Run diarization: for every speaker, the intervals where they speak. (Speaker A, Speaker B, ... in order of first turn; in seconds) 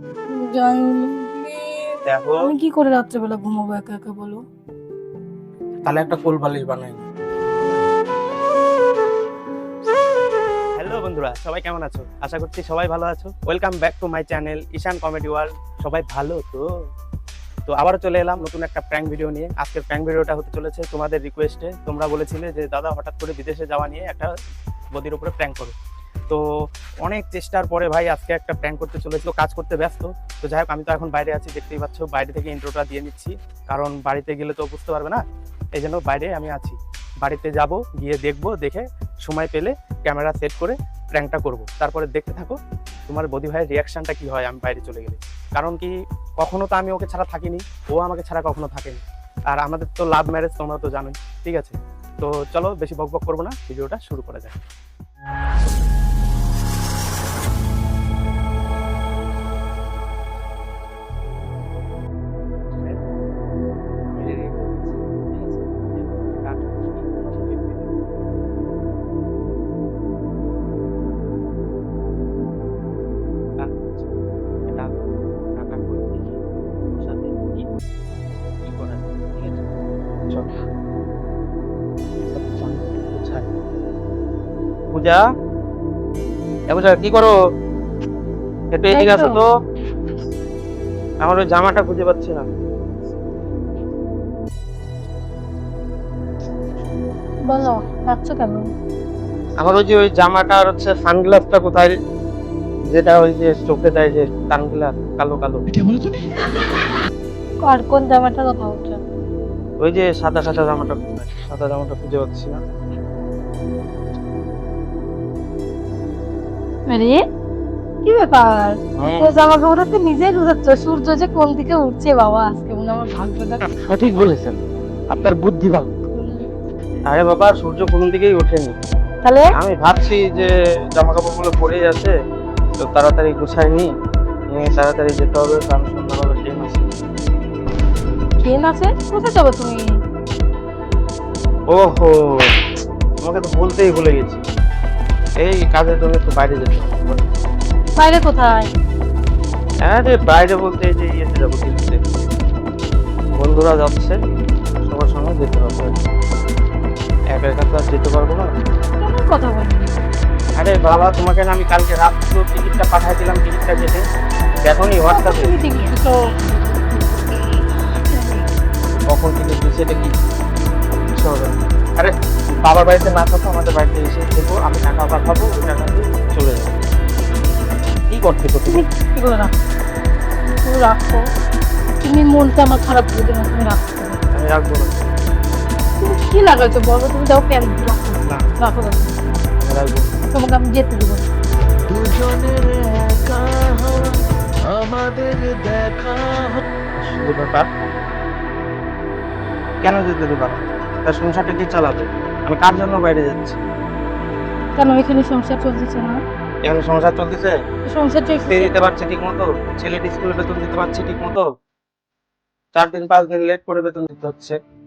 Speaker A: 0.3-4.4, 88.9-89.4, 97.5-98.7, 107.6-109.0, 116.9-117.2, 118.0-123.6, 126.1-126.5, 138.4-139.8, 147.9-148.7, 159.0-160.0, 165.0-168.4, 178.7-179.5, 180.6-181.2, 182.0-184.2, 186.0-189.2, 190.3-191.3, 204.8-206.2, 207.8-208.7
Speaker B: 2.0-2.4, 5.8-7.0, 10.8-16.6, 17.7-24.3, 24.9-25.7, 27.0-35.2, 35.7-42.6, 43.1-54.5, 62.7-63.0, 64.1-68.0, 73.6-74.1, 74.7-75.0, 75.5-77.7, 78.6-79.7, 82.3-83.5, 84.9-85.2, 86.7-87.3, 88.7-89.5, 91.2-92.5, 99.6-101.9, 102.9-105.6, 109.8-112.6, 119.0-119.3, 123.8-124.5, 125.1-125.9, 127.1-128.8, 129.5-132.1, 132.8-133.9, 134.5-136.9, 141.7-142.5, 143.2-144.4, 145.4-147.2, 149.8-152.0, 153.3-154.2, 154.9-155.9, 157.3-158.5, 160.6-164.0, 164.6-165.5, 169.1-170.2, 171.1-172.1, 172.6-176.8, 178.1-178.8, 184.3-185.0, 189.6-190.1, 196.9-197.7, 199.8-203.6, 206.7-207.6, 208.5-211.4, 212.7-214.6
Speaker C: 191.9-196.6